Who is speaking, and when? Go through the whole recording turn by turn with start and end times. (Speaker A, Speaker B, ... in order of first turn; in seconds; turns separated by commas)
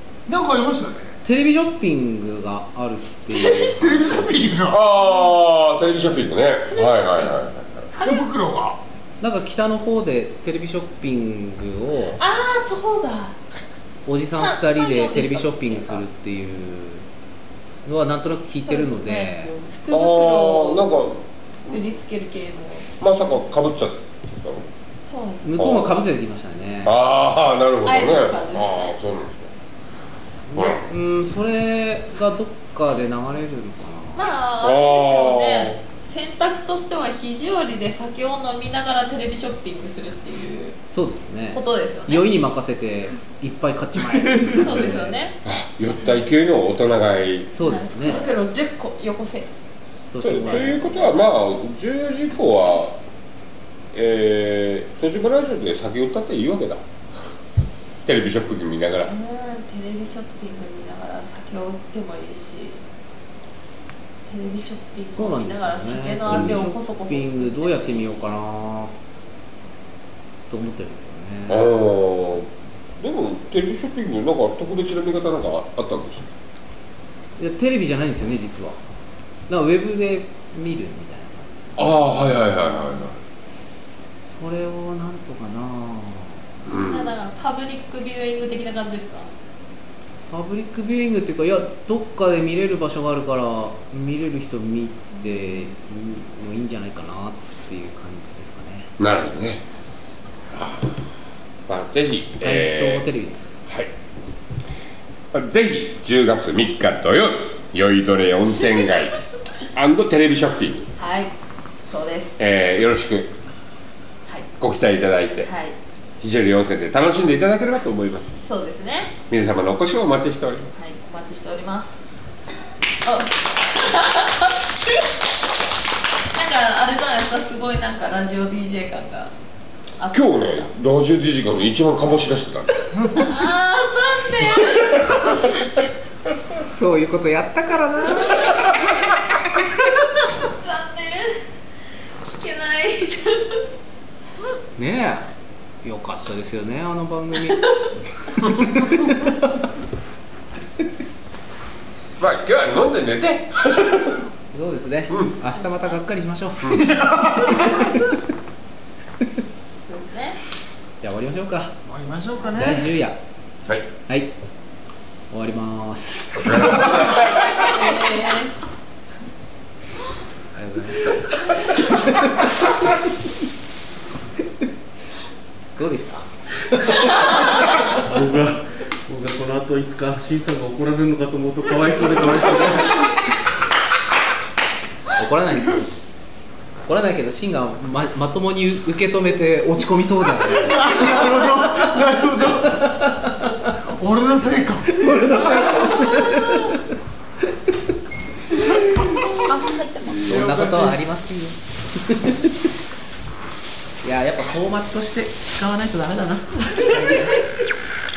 Speaker A: 0.3-1.2, Speaker B: 1.2-4.3, Speaker C: 3.3-3.8, Speaker A: 3.6-4.8, Speaker D: 4.7-7.9, Speaker C: 6.7-8.2, Speaker A: 7.9-8.8, Speaker B: 9.2-12.2, Speaker C: 12.2-13.4, Speaker B: 14.1-17.1, Speaker C: 14.3-16.0, Speaker B: 17.8-19.5, Speaker C: 18.6-20.9, Speaker D: 19.9-21.8, Speaker C: 21.7-22.9, Speaker D: 23.0-24.7, Speaker C: 25.1-25.6, Speaker B: 25.4-26.9, Speaker D: 25.6-25.9, Speaker D: 26.8-29.5, Speaker C: 27.8-29.0, Speaker B: 30.5-34.3, Speaker D: 30.5-30.9, Speaker C: 34.1-40.8, Speaker D: 34.6-35.8, Speaker B: 40.9-45.1, Speaker C: 41.5-42.3, Speaker C: 44.4-45.4, Speaker D: 45.4-48.3, Speaker B: 47.5-48.2, Speaker C: 47.6-49.5, Speaker B: 50.1-51.0, Speaker D: 50.2-53.0, Speaker C: 50.4-51.4, Speaker D: 53.9-56.8, Speaker D: 58.0-59.1, Speaker C: 59.1-62.8, Speaker C: 64.3-68.3, Speaker B: 65.1-68.9, Speaker B: 70.5-71.7, Speaker D: 71.5-72.5, Speaker D: 73.0-76.3, Speaker B: 77.4-78.8, Speaker B: 79.5-81.9, Speaker D: 81.8-83.2, Speaker B: 84.2-86.5, Speaker D: 86.6-87.2, Speaker C: 86.8-89.3, Speaker B: 90.3-98.9, Speaker C: 95.1-95.7, Speaker D: 99.0-99.6, Speaker D: 100.5-101.1, Speaker D: 101.7-103.1, Speaker B: 102.4-103.5, Speaker D: 103.7-103.9, Speaker D: 105.3-109.2, Speaker D: 109.7-110.9, Speaker C: 111.0-111.3, Speaker C: 111.9-112.4, Speaker D: 112.4-113.3, Speaker D: 114.6-115.5, Speaker C: 115.4-115.8, Speaker D: 116.2-118.3, Speaker C: 118.4-119.2, Speaker D: 119.3-120.7, Speaker C: 120.8-121.9, Speaker C: 123.0-125.1, Speaker C: 126.3-129.3, Speaker C: 130.0-130.7, Speaker D: 130.1-132.9, Speaker C: 133.2-135.5, Speaker D: 134.6-135.5, Speaker B: 136.7-139.1, Speaker C: 140.2-141.4, Speaker C: 142.2-143.6, Speaker B: 144.8-145.3, Speaker B: 145.8-147.6, Speaker C: 147.5-147.9, Speaker B: 148.3-149.6, Speaker D: 152.2-154.2, Speaker B: 154.5-158.1, Speaker C: 155.5-156.0, Speaker A: 156.8-158.0, Speaker C: 159.9-160.4, Speaker B: 161.0-161.8, Speaker A: 161.8-162.9, Speaker B: 162.5-163.2, Speaker B: 164.1-164.3, Speaker B: 165.3-167.1, Speaker D: 166.4-167.9, Speaker C: 167.6-168.7, Speaker B: 170.6-172.4, Speaker D: 170.6-171.4, Speaker B: 175.8-178.0, Speaker E: 178.0-183.1, Speaker B: 182.3-183.1, Speaker B: 185.1-185.9, Speaker B: 186.8-191.9, Speaker A: 190.6-193.1, Speaker B: 192.6-193.7, Speaker A: 193.7-196.0, Speaker B: 194.9-196.8, Speaker B: 198.8-199.2, Speaker C: 198.8-200.3, Speaker A: 198.9-199.3, Speaker B: 200.2-202.6, Speaker A: 200.3-200.9, Speaker B: 204.0-207.4, Speaker C: 206.7-207.3